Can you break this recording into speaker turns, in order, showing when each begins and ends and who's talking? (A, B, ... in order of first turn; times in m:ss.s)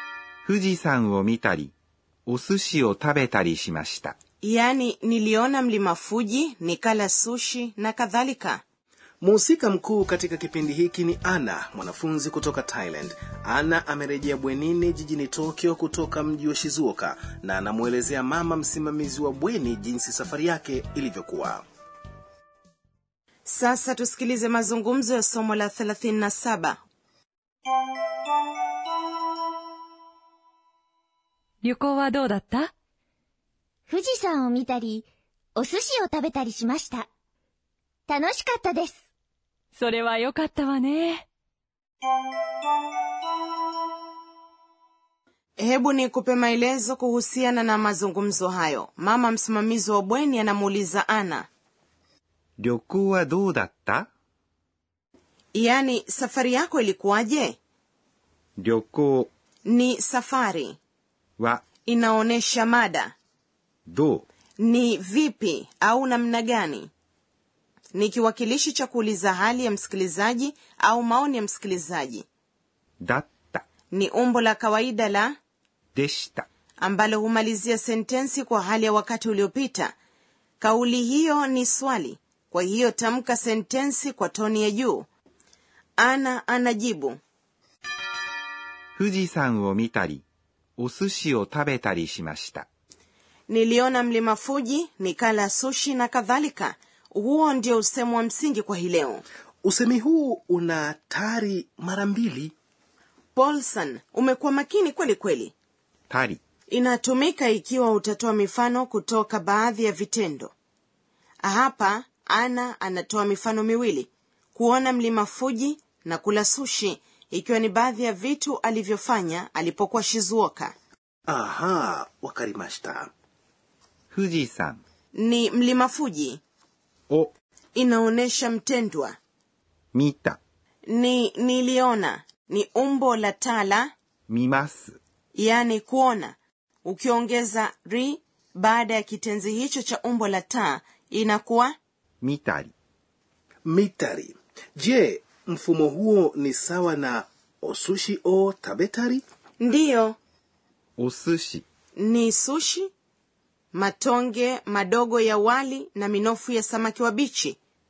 0:00.4-0:01.7 A
0:02.3-0:04.1 A
0:04.4-0:08.6 B
0:09.2-0:21.6 C
0:23.4-0:26.8 B
0:31.6-0:32.7 D
0:33.9-0:37.1 E
0:38.1-0:39.0 E
0:39.8-0:41.3 D
0:45.6-0:51.4 B
0:52.6-0:54.1 A
0:55.5-0:57.6 B
0:58.6-0:59.3 A
0:59.7-1:00.8 B
1:01.4-1:01.6 A
1:01.8-1:03.1 B
1:03.9-1:04.2 A
1:04.6-1:06.9 B
1:07.9-1:12.3 B
1:13.0-1:13.6 A
1:13.9-1:15.3 B
1:16.0-1:16.4 A
1:16.8-1:19.9 B
1:20.6-1:25.1 B
1:26.0-1:27.2 B
1:29.0-1:30.2 A
1:30.8-1:32.6 A
1:33.5-1:39.2 B
1:39.6-1:42.5 C
1:43.3-1:45.5 B
1:46.1-1:46.4 A
1:46.7-1:50.5 B
1:51.4-2:00.7 B
2:01.3-2:03.1 C
2:04.1-2:04.8 A
2:05.2-2:06.4 B
2:07.8-2:09.2 B
2:09.9-2:10.4 A
2:10.9-2:13.9 B
2:14.3-2:15.0 A
2:15.3-2:21.7 B
2:22.2-2:22.7 A
2:23.6-2:29.2 C
2:29.6-2:30.2 B
2:31.0-2:31.6 A
2:32.0-2:32.9 B
2:33.7-2:37.6 B